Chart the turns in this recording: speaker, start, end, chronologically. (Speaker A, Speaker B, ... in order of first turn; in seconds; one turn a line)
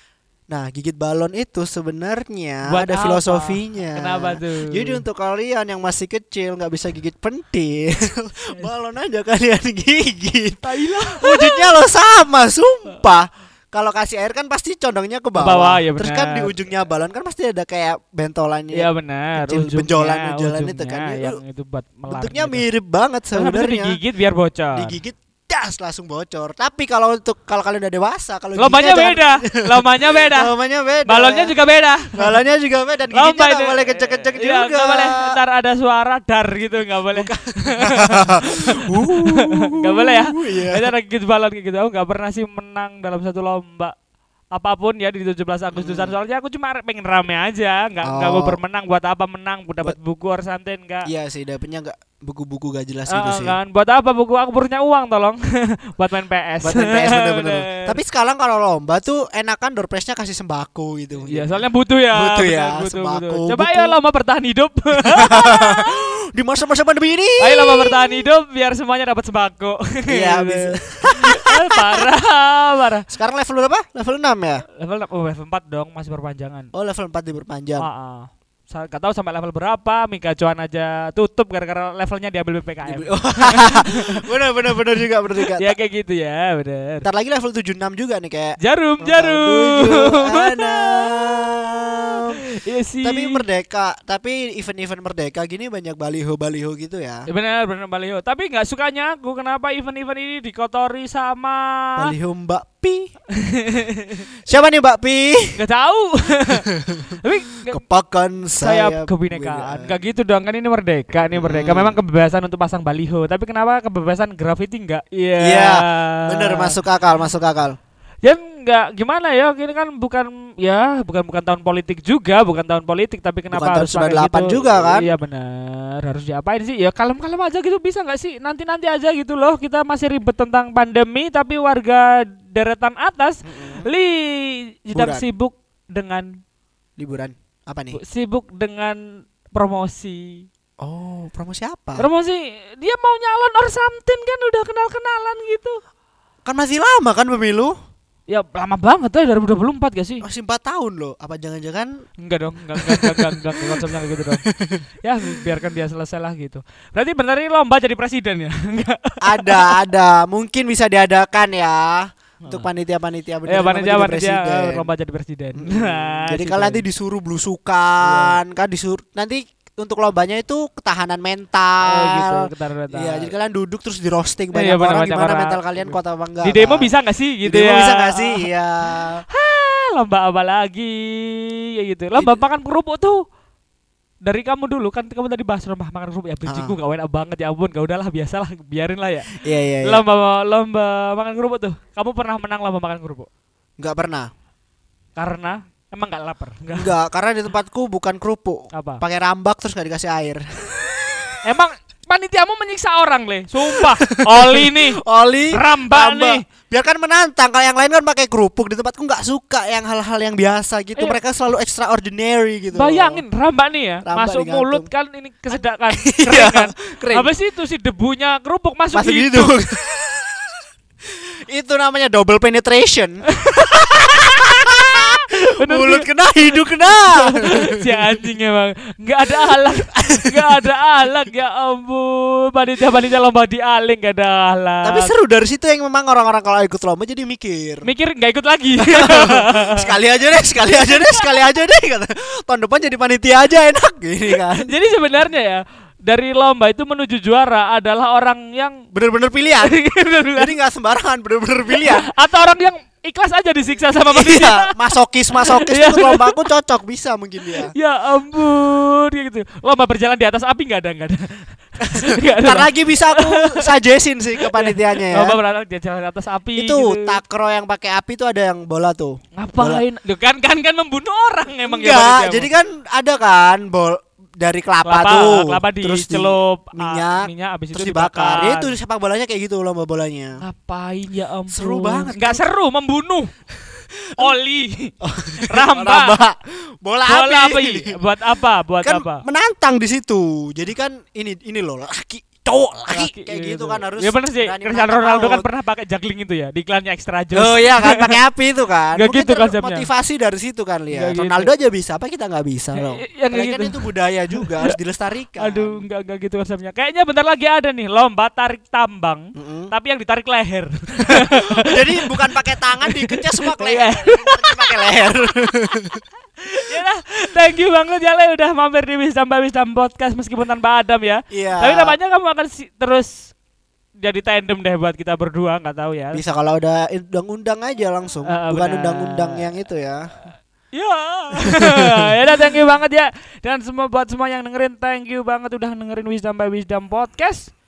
Speaker A: 0.5-10.6
Speaker B: 2.7-5.0
Speaker B: 10.6-11.8
Speaker A: 11.2-21.4
Speaker B: 15.3-16.5
Speaker B: 18.7-22.6
Speaker A: 22.1-24.0
Speaker B: 23.3-24.9
Speaker A: 24.7-29.6
Speaker B: 28.6-30.5
Speaker A: 30.3-31.5
Speaker B: 31.1-32.4
Speaker A: 32.1-35.4
Speaker B: 33.1-43.9
Speaker A: 37.1-40.8
Speaker B: 44.5-51.1
Speaker A: 45.7-46.1
Speaker A: 48.0-48.6
Speaker A: 51.0-53.6
Speaker B: 53.1-58.0
Speaker A: 56.6-64.0
Speaker B: 61.3-65.9
Speaker A: 65.0-68.2
Speaker B: 67.4-73.1
Speaker A: 70.1-71.9
Speaker A: 73.1-74.6
Speaker B: 74.8-76.7
Speaker A: 76.7-77.8
Speaker B: 77.8-84.2
Speaker A: 82.8-85.7
Speaker B: 85.5-87.0
Speaker A: 87.0-92.4
Speaker B: 88.6-91.5
Speaker B: 92.2-93.4
Speaker A: 93.0-97.3
Speaker B: 97.3-102.1
Speaker A: 102.0-103.1
Speaker B: 103.3-104.2
Speaker A: 104.5-105.6
Speaker B: 105.5-106.7
Speaker A: 106.8-107.2
Speaker B: 107.2-107.8
Speaker A: 107.7-110.0
Speaker B: 108.6-116.7
Speaker A: 111.3-112.0
Speaker A: 115.4-117.8
Speaker B: 118.2-136.3
Speaker A: 123.5-125.1
Speaker A: 133.4-133.9
Speaker A: 134.9-135.2
Speaker A: 137.0-138.0
Speaker B: 137.9-139.0
Speaker B: 139.5-140.4
Speaker A: 140.8-142.1
Speaker B: 142.0-145.8
Speaker A: 146.4-147.7
Speaker B: 148.3-150.2
Speaker A: 150.2-151.9
Speaker B: 152.2-154.4
Speaker A: 152.7-153.7
Speaker A: 154.4-154.8
Speaker B: 155.0-159.7
Speaker A: 159.2-164.8
Speaker B: 163.5-166.8
Speaker A: 165.6-176.9
Speaker B: 168.0-168.4
Speaker B: 171.8-173.3
Speaker B: 174.5-183.2
Speaker A: 177.4-179.2
Speaker B: 184.2-189.3
Speaker A: 186.4-186.7
Speaker A: 189.4-190.0
Speaker B: 189.8-193.3
Speaker A: 193.8-194.3
Speaker B: 195.2-196.9
Speaker A: 196.8-201.4
Speaker B: 198.7-199.0
Speaker B: 201.4-205.0
Speaker A: 203.7-213.2
Speaker B: 205.5-206.4
Speaker B: 212.7-219.5
Speaker A: 214.0-214.9
Speaker A: 216.0-217.3
Speaker A: 218.9-220.5
Speaker A: 221.5-227.9
Speaker B: 223.3-226.0
Speaker B: 226.9-235.1
Speaker A: 229.3-230.3
Speaker A: 234.8-237.8
Speaker B: 237.8-239.9
Speaker A: 238.8-244.7
Speaker B: 240.8-241.2
Speaker B: 244.3-248.8
Speaker A: 248.9-249.8
Speaker B: 249.5-250.5
Speaker A: 250.3-252.1
Speaker B: 251.7-254.7
Speaker A: 254.1-257.7
Speaker B: 255.3-256.3
Speaker B: 257.6-263.7
Speaker A: 261.8-265.4
Speaker B: 264.4-267.2
Speaker A: 266.6-269.8
Speaker B: 269.4-272.5
Speaker A: 271.6-280.4
Speaker B: 274.8-278.7
Speaker B: 280.4-283.3
Speaker A: 281.5-282.4
Speaker B: 284.2-284.9
Speaker A: 285.0-287.9
Speaker B: 285.4-286.2
Speaker B: 287.1-289.2
Speaker A: 288.8-295.4
Speaker B: 292.9-298.2
Speaker A: 297.3-305.8
Speaker B: 298.9-299.9
Speaker B: 300.9-301.5
Speaker B: 302.8-304.7
Speaker B: 305.4-315.1
Speaker A: 309.4-309.7
Speaker A: 311.1-316.0
Speaker B: 316.4-323.3
Speaker A: 321.3-322.0
Speaker B: 324.0-326.2
Speaker A: 326.1-330.1
Speaker B: 328.2-329.4
Speaker B: 330.7-337.5
Speaker A: 331.5-332.0